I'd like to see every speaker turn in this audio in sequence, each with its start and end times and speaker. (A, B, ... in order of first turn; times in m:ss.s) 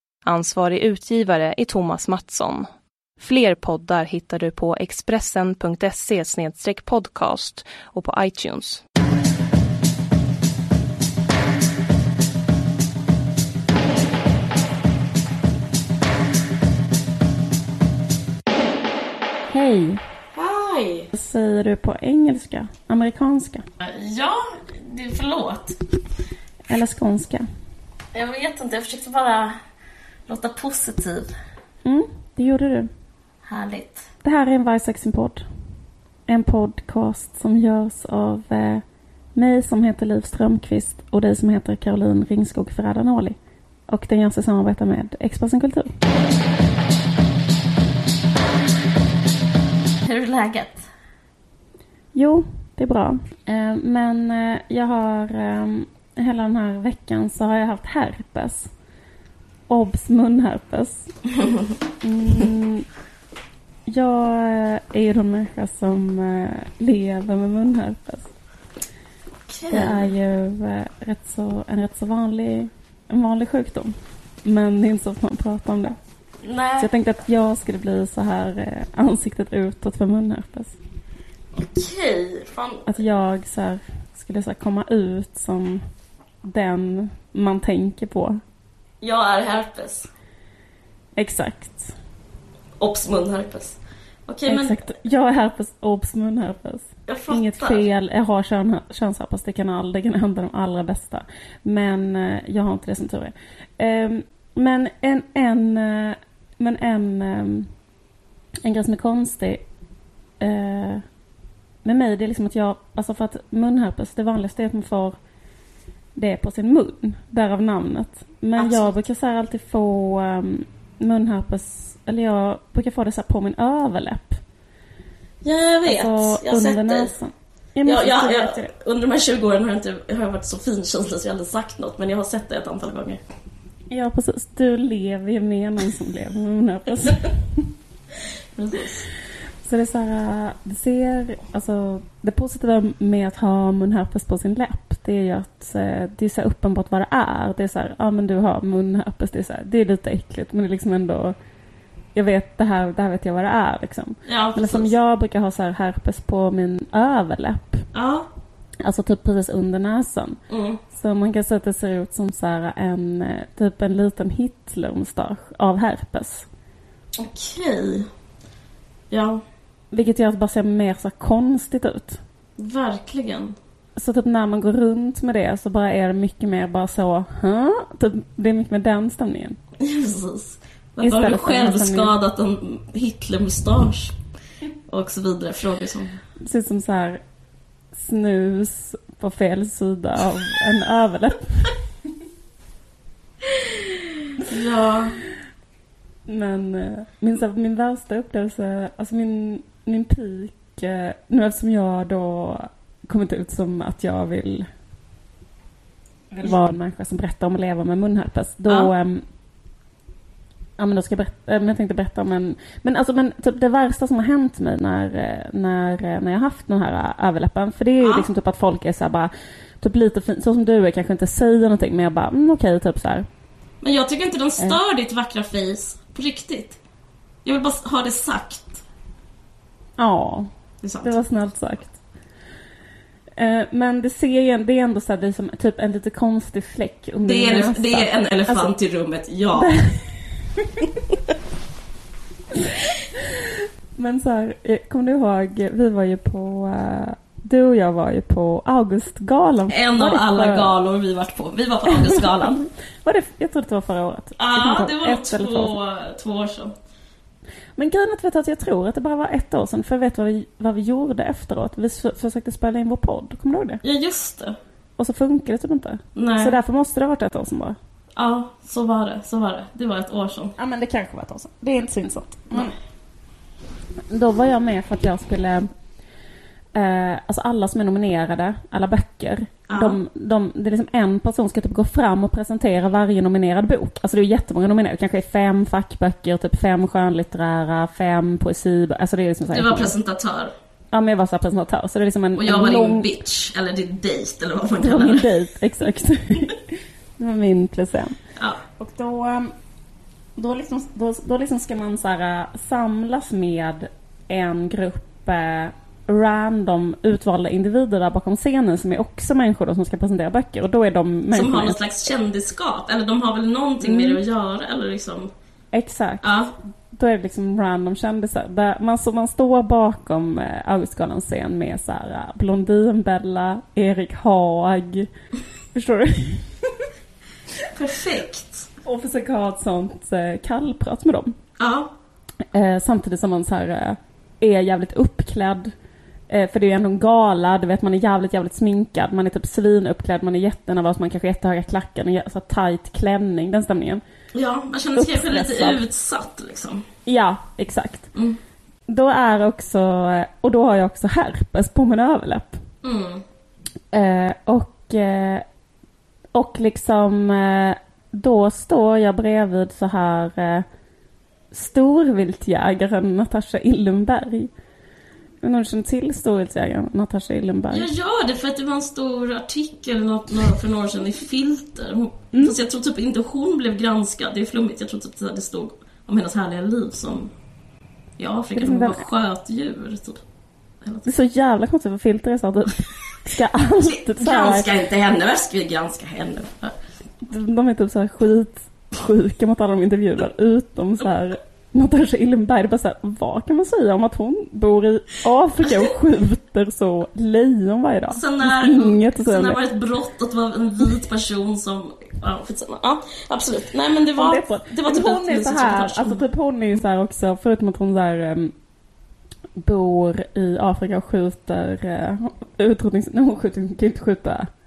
0:00.2-0:02.7 A
0:03.2-0:08.8 A
0:19.5-0:20.0 B
0:20.3-0:21.1 C
0:21.1-0:23.6 B
0:23.8-0:25.8 C
0:26.7-0:27.4 B
0:28.1-0:29.5 C
0:30.3-0:31.3 C
0:31.8-0:32.9 B
0:33.4-0:34.0 C
0:34.2-0:35.4 B
0:36.3-0:38.8 B
0:39.4-0:43.4 B
0:43.9-0:45.9 B
0:50.0-0:50.9 C
0:52.1-0:58.7 B
0:59.7-1:01.1 B
1:02.0-1:02.8 B
1:03.9-1:08.3 B
1:09.5-1:10.1 C
1:09.7-1:16.0 B
1:16.4-1:16.9 C
1:16.8-1:20.8 B
1:21.5-1:22.9 C
1:22.8-1:25.8 B
1:26.4-1:28.4 B
1:29.0-1:30.1 C
1:31.2-1:31.9 B
1:32.8-1:34.8 C
1:34.5-1:47.7 B
1:37.1-1:37.8 C
1:48.6-1:49.6 B
1:50.4-1:51.0 B
1:51.8-1:55.2 B
1:56.2-2:04.4 B
1:58.6-1:58.9 C
2:05.4-2:07.1 C
2:05.8-2:08.7 B
2:07.8-2:13.2 C
2:13.9-2:17.6 B
2:18.5-2:19.0 C
2:19.6-2:31.3 B
2:32.1-2:37.9 B
2:34.2-2:34.9 C
2:37.9-2:38.3 C
2:38.8-2:46.5 B
2:40.5-2:40.8 C
2:47.2-2:48.1 C
2:49.1-2:49.4 C
2:49.9-2:52.2 B
2:52.6-2:53.6 C
2:54.0-2:59.6 B
2:59.8-3:04.2 C
3:01.0-3:02.1 B
3:04.9-3:06.1 C
3:06.4-3:07.2 B
3:07.9-3:11.7 B
3:13.4-3:15.2 C
3:16.3-3:24.7 B
3:26.3-3:29.2 B
3:30.8-3:43.2 B
3:38.0-3:38.3 C
3:43.8-3:46.8 C
3:47.4-3:48.8 C
3:50.0-3:50.5 B
3:50.8-3:51.1 C
3:51.0-3:52.0 B
3:53.4-3:58.7 B
3:57.2-3:59.8 C
3:59.5-4:00.0 B
4:00.6-4:00.9 B
4:02.6-4:03.4 B
4:04.0-4:10.7 B
4:09.7-4:12.6 C
4:11.9-4:15.8 B
4:14.4-4:16.7 C
4:17.8-4:23.8 B
4:23.8-4:24.6 C
4:25.0-4:27.8 B
4:26.1-4:26.6 C
4:28.2-4:30.5 C
4:30.6-4:32.7 B
4:34.1-4:35.7 B
4:36.7-4:49.9 B
4:39.7-4:40.0 C
4:49.5-4:50.5 C
4:50.9-4:53.1 B
4:52.3-4:55.3 C
4:54.8-4:56.6 B
4:57.2-4:58.2 B
4:58.7-4:59.5 B
5:00.4-5:11.8 B
5:11.3-5:15.3 C
5:13.8-5:14.2 B
5:15.7-5:16.3 B
5:16.2-5:16.5 C
5:16.9-5:25.1 B
5:25.7-5:26.8 B
5:27.7-5:28.7 C
5:28.8-5:31.4 B
5:31.6-5:31.9 C
5:32.5-5:35.7 B
5:36.3-5:44.0 B
5:44.3-5:46.8 C
5:45.0-5:45.8 B
5:47.0-5:48.1 B
5:48.9-5:52.6 B
5:52.8-5:53.2 C
5:53.9-5:55.4 B
5:56.3-6:00.6 B
6:01.5-6:04.5 B
6:05.4-6:07.9 B
6:07.7-6:17.3 C
6:18.2-6:20.2 C
6:18.5-6:19.0 B
6:20.8-6:21.1 C
6:21.0-6:24.7 B
6:23.8-6:26.8 C
6:27.2-6:39.6 B
6:35.6-6:35.9 C
6:38.1-6:46.2 C
6:44.2-6:48.5 B
6:49.6-6:54.5 B